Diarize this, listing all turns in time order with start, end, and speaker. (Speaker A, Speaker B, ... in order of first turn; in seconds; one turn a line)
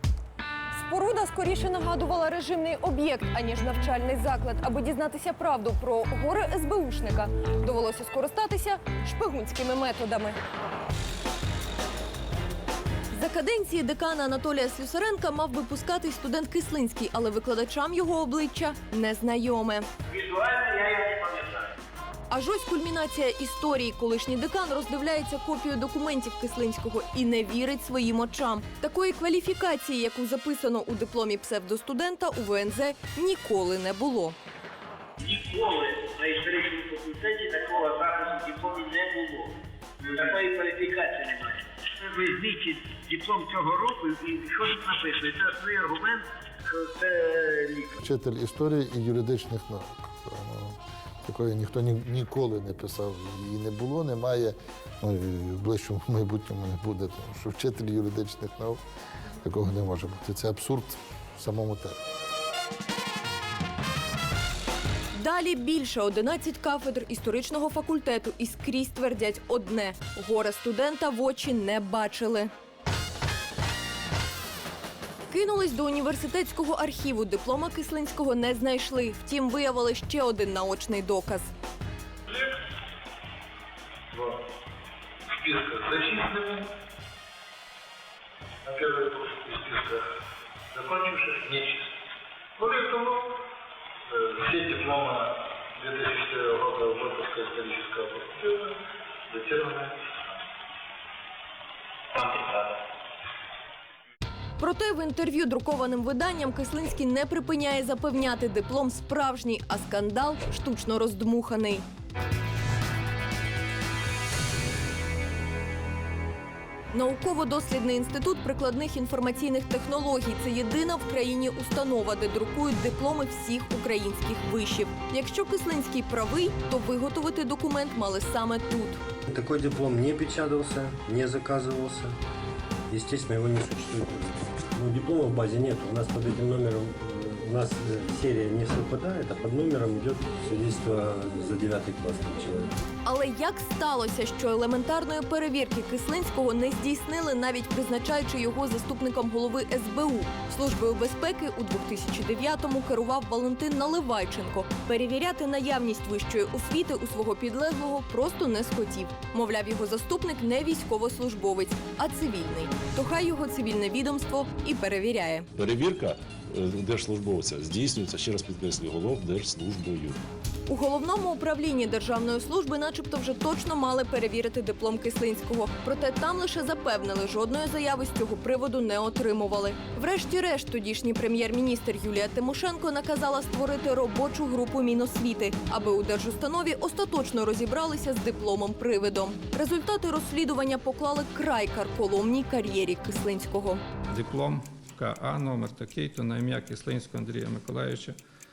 Speaker A: 0.7-10.4
Speaker A: 13.1-19.9
Speaker B: 20.1-21.7
Speaker A: 22.3-34.4
Speaker B: 35.2-48.0
Speaker C: 48.0-58.8
Speaker C: 59.4-62.0
Speaker A: 65.1-72.5
Speaker A: 75.3-81.5
Speaker A: 104.6-111.8
Speaker A: 116.9-129.0
Speaker D: 129.3-132.2
Speaker D: 132.9-142.7
Speaker A: 143.0-165.5
Speaker E: 165.6-170.2
Speaker A: 170.7-193.8
Speaker F: 194.1-198.2